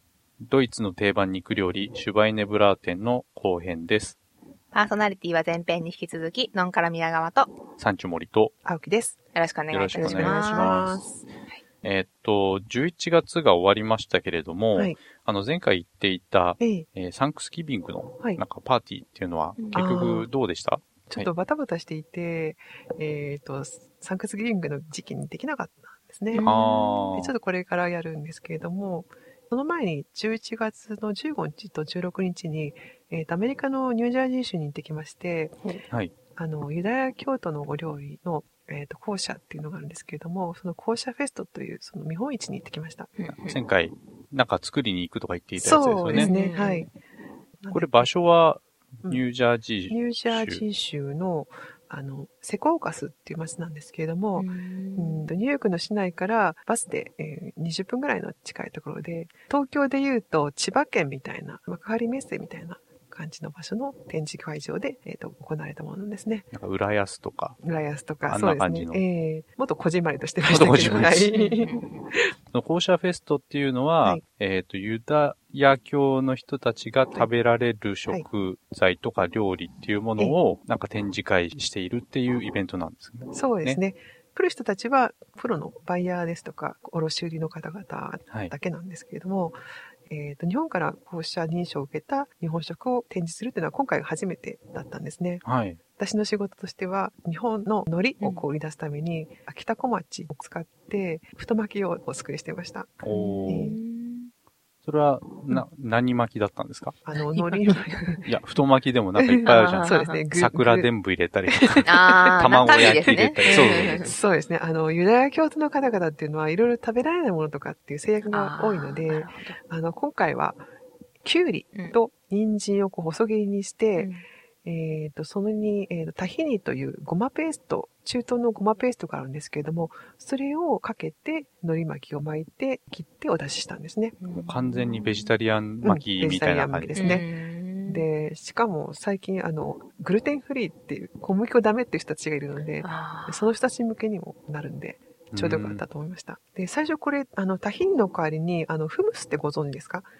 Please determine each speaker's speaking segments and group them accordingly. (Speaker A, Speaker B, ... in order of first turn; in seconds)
Speaker A: 0.4-4.2, 7.8-8.5, 9.7-11.1, 11.8-21.3, 26.4-27.3, 43.3-46.3, 47.7-50.6, 66.5-67.6, 68.2-69.0, 70.4-71.3, 72.5-83.8, 95.4-95.8, 103.0-103.7, 104.8-107.0, 108.2-114.1, 134.3-137.2, 145.3-145.8
Speaker B: 4.7-7.5, 9.3-10.8, 19.6-19.8, 26.3-27.0, 43.2-43.6, 46.1-46.9, 54.3-55.2, 71.3-72.0, 103.1-104.3, 107.2-108.2, 109.4-110.2, 111.8-114.1, 118.3-119.6, 124.0-124.2, 134.2-135.3, 137.0-138.1, 142.8-143.6
Speaker C: 8.6-9.2, 10.0-11.2, 16.6-16.9, 19.7-20.3, 21.1-26.5, 27.1-35.7, 36.4-43.1, 45.6-46.9, 47.6-48.1, 49.9-66.5, 67.6-72.3, 83.3-95.4, 96.0-103.8, 107.0-108.2, 109.2-110.9, 111.5-120.6, 121.2-124.1, 124.6-134.2, 135.8-137.2, 137.8-150.1